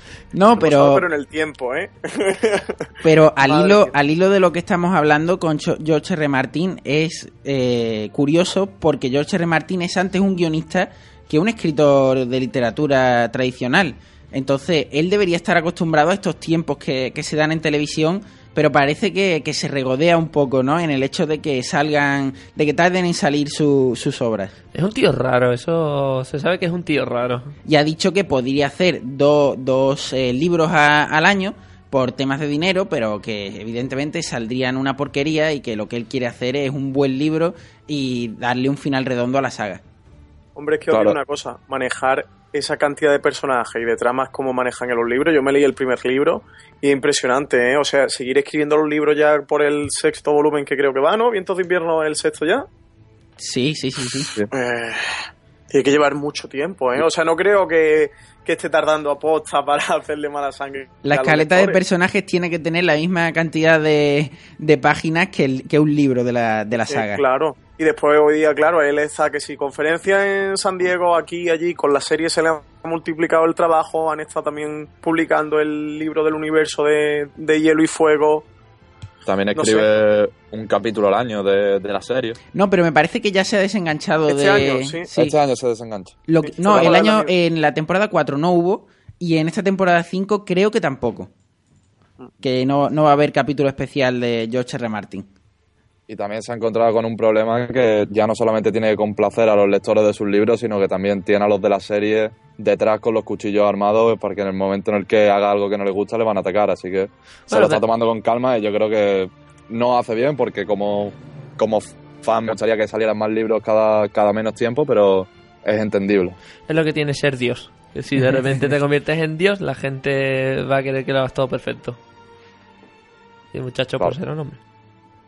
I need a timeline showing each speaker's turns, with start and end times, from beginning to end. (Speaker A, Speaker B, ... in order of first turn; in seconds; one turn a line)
Speaker A: 0.3-1.1
Speaker B: 0.6-2.8
Speaker A: 3.0-24.5
Speaker B: 3.4-3.9
Speaker C: 24.7-27.6
Speaker A: 27.6-39.8
Speaker B: 40.6-52.7
Speaker D: 40.9-41.2
Speaker A: 53.4-54.3
Speaker B: 54.5-55.1
Speaker B: 55.7-61.8
Speaker A: 61.0-67.2
Speaker B: 66.9-78.5
Speaker D: 79.3-82.4
Speaker B: 79.6-79.9
Speaker A: 82.5-85.4
Speaker B: 84.3-85.1
Speaker D: 85.2-87.0
Speaker A: 86.3-91.3
Speaker B: 86.6-87.3
Speaker A: 92.4-95.3
Speaker D: 96.1-116.4
Speaker C: 107.5-107.8
Speaker C: 116.7-122.0
Speaker C: 123.5-124.6